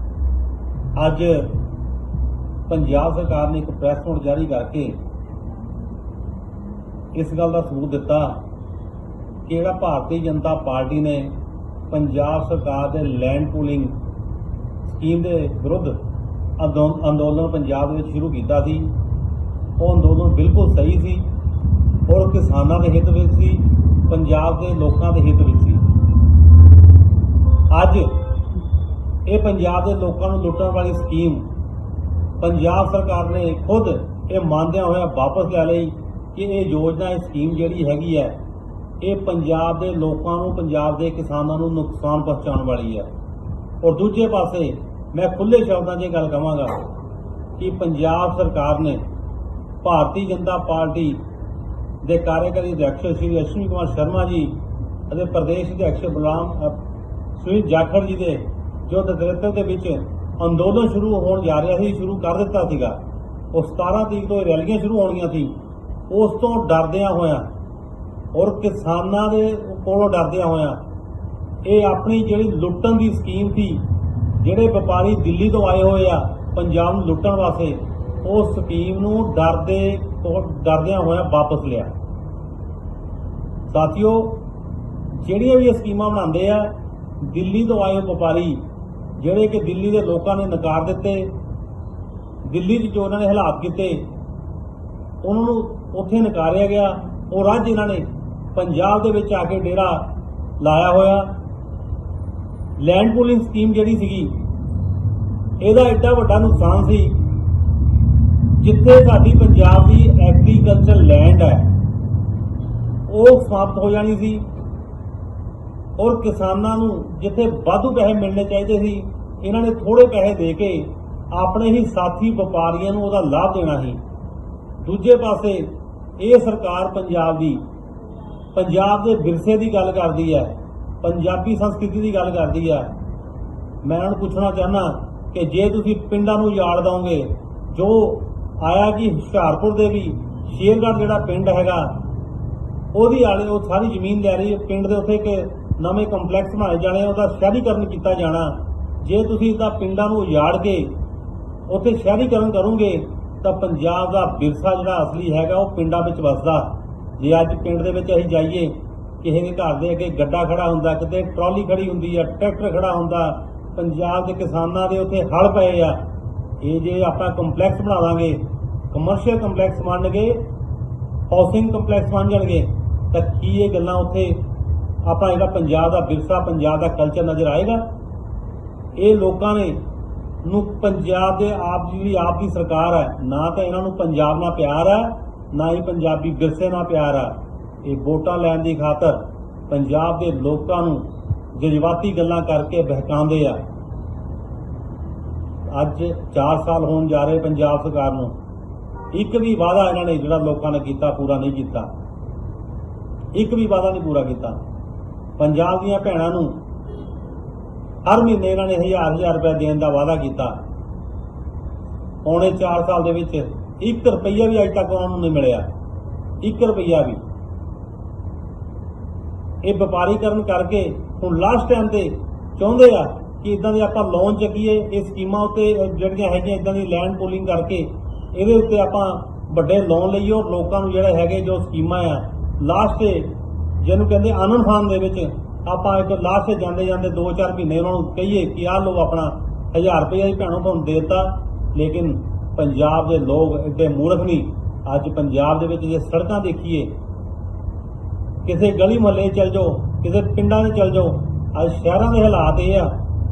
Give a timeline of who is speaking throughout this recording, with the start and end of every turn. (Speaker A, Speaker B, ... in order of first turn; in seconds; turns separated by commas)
Speaker A: 0.9-1.5, Speaker A: 2.7-4.9, Speaker A: 7.1-8.4, Speaker A: 9.4-11.3, Speaker A: 11.9-13.9, Speaker A: 14.8-16.0, Speaker A: 16.6-18.9, Speaker A: 19.8-21.2, Speaker A: 22.1-25.8, Speaker A: 27.7-28.2, Speaker A: 29.2-31.4, Speaker A: 32.4-38.4, Speaker A: 39.0-43.1, Speaker A: 43.8-46.8, Speaker A: 47.6-49.0, Speaker A: 49.8-51.2, Speaker A: 52.0-54.5, Speaker A: 55.1-56.8, Speaker A: 57.4-63.0, Speaker A: 63.5-65.5, Speaker A: 66.1-67.5, Speaker A: 68.3-70.8, Speaker A: 71.6-73.8, Speaker A: 74.4-81.9, Speaker A: 83.7-84.4, Speaker A: 85.1-88.6, Speaker A: 89.2-91.3, Speaker A: 92.4-94.0, Speaker A: 95.2-100.0, Speaker A: 100.6-101.3, Speaker A: 102.8-104.3, Speaker A: 105.6-107.2, Speaker A: 108.6-111.7, Speaker A: 113.1-114.4, Speaker A: 116.0-124.0, Speaker A: 124.8-127.6, Speaker A: 128.5-132.9, Speaker A: 133.8-141.9, Speaker A: 142.9-150.9, Speaker A: 151.7-166.0, Speaker A: 166.6-170.4, Speaker A: 171.3-174.4, Speaker A: 175.0-177.8, Speaker A: 178.9-179.8, Speaker A: 180.4-193.6, Speaker A: 195.7-198.3, Speaker A: 199.1-201.9, Speaker A: 203.3-204.6, Speaker A: 205.4-206.6, Speaker A: 208.0-210.6, Speaker A: 212.2-215.7, Speaker A: 216.4-217.2, Speaker A: 219.6-246.9, Speaker A: 248.4-252.9